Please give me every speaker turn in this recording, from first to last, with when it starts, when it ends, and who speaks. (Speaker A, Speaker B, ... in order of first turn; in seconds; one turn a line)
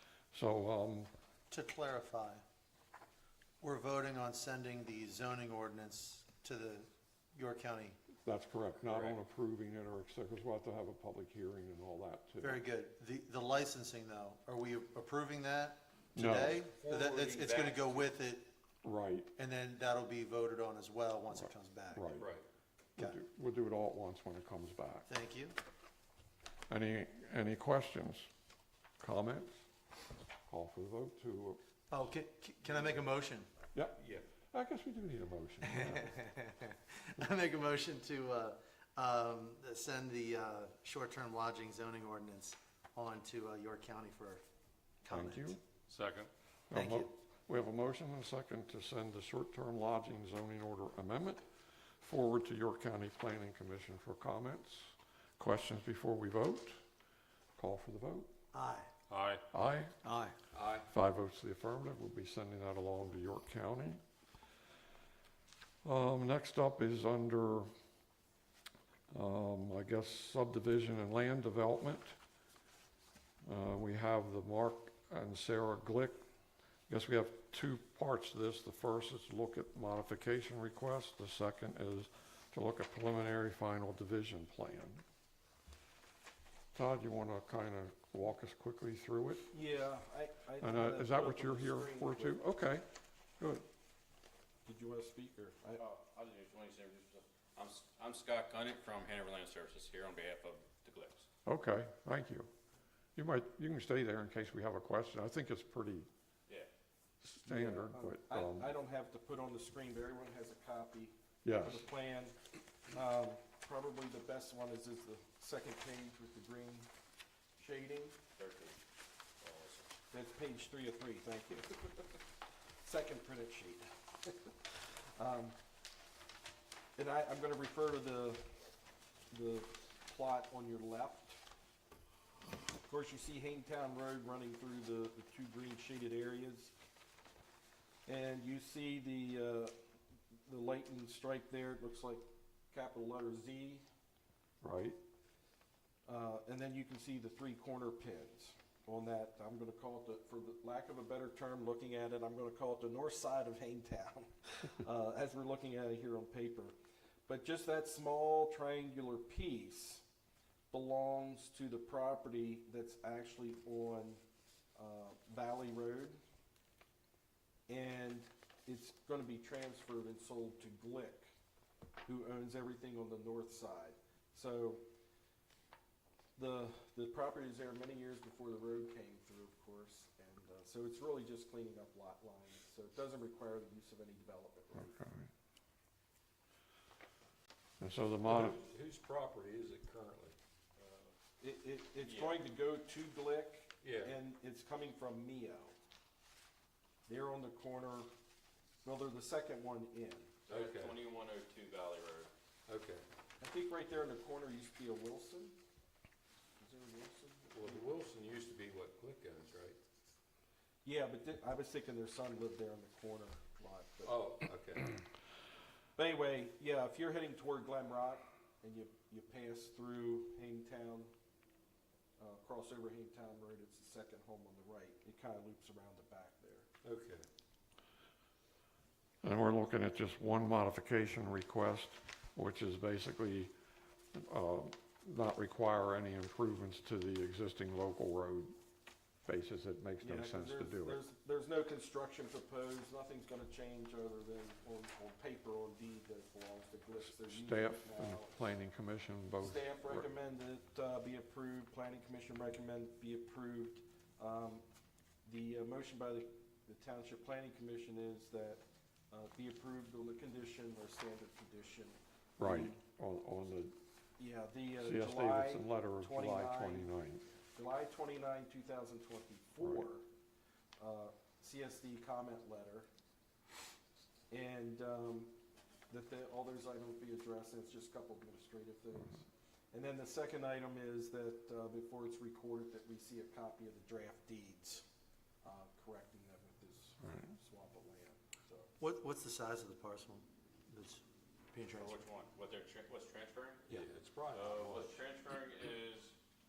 Speaker A: 0.3-1.1
Speaker B: 1.5-2.4
Speaker B: 3.6-8.0
Speaker A: 8.2-12.6
Speaker B: 12.4-18.5
Speaker A: 16.2-16.6
Speaker C: 16.9-17.6
Speaker D: 16.9-17.9
Speaker A: 18.8-19.3
Speaker B: 19.4-22.1
Speaker A: 21.4-22.3
Speaker C: 22.2-22.4
Speaker A: 23.0-25.1
Speaker B: 25.1-25.6
Speaker A: 26.7-28.3
Speaker A: 29.0-29.6
Speaker A: 30.5-31.6
Speaker B: 31.9-33.5
Speaker C: 34.0-34.3
Speaker A: 34.5-36.1
Speaker B: 35.6-44.4
Speaker B: 45.0-45.6
Speaker A: 45.1-45.6
Speaker C: 45.9-46.3
Speaker A: 46.7-51.4
Speaker B: 46.7-47.1
Speaker A: 52.0-56.8
Speaker A: 57.6-58.3
Speaker B: 58.5-58.9
Speaker C: 59.1-59.4
Speaker A: 59.5-60.0
Speaker B: 60.0-60.4
Speaker C: 60.5-60.9
Speaker A: 60.9-64.0
Speaker A: 65.8-67.7
Speaker A: 69.1-72.2
Speaker A: 73.4-76.2
Speaker A: 76.9-85.0
Speaker A: 86.7-89.5
Speaker E: 89.5-92.4
Speaker A: 90.6-92.9
Speaker A: 93.4-93.7
Speaker E: 94.7-95.8
Speaker D: 95.8-101.3
Speaker A: 101.5-102.5
Speaker A: 103.2-106.1
Speaker A: 107.2-108.7
Speaker E: 107.5-112.4
Speaker A: 111.4-111.8
Speaker E: 112.9-116.9
Speaker E: 117.6-118.2
Speaker D: 118.4-118.8
Speaker D: 119.4-119.9
Speaker E: 120.1-122.0
Speaker E: 122.8-125.6
Speaker E: 127.0-128.4
Speaker E: 129.3-131.4
Speaker E: 132.9-136.7
Speaker E: 138.1-139.8
Speaker E: 140.5-143.8
Speaker A: 144.6-145.0
Speaker E: 146.1-156.7
Speaker E: 157.3-160.1
Speaker E: 160.7-164.2
Speaker E: 164.8-166.2
Speaker E: 167.7-171.3
Speaker E: 172.0-174.8
Speaker E: 176.4-185.0
Speaker A: 184.8-185.3
Speaker A: 187.8-188.6
Speaker C: 188.3-190.3
Speaker D: 190.8-191.1
Speaker E: 191.4-195.7
Speaker D: 192.0-192.4
Speaker C: 193.8-194.2
Speaker E: 197.1-198.1
Speaker E: 198.8-200.5
Speaker D: 200.5-202.3
Speaker C: 200.5-200.9
Speaker C: 202.7-203.1
Speaker E: 203.4-205.6
Speaker E: 206.6-208.1
Speaker C: 207.5-209.8
Speaker E: 210.8-214.2
Speaker C: 214.0-215.0
Speaker E: 216.0-221.1
Speaker E: 222.2-226.7
Speaker C: 226.8-227.3
Speaker A: 229.2-233.5
Speaker A: 234.1-238.6
Speaker A: 239.2-241.0
Speaker E: 240.0-248.4
Speaker A: 247.1-250.1
Speaker E: 249.4-254.6
Speaker E: 255.2-262.8
Speaker A: 262.4-263.8
Speaker E: 264.2-266.9
Speaker A: 264.8-267.3
Speaker E: 267.5-270.1
Speaker A: 269.6-269.9
Speaker E: 270.8-272.9
Speaker E: 274.3-275.3
Speaker E: 275.9-284.9
Speaker E: 285.4-288.7
Speaker A: 287.1-287.3
Speaker B: 288.8-291.0
Speaker B: 291.5-291.9
Speaker D: 291.7-293.6
Speaker C: 293.7-295.0
Speaker D: 294.3-296.1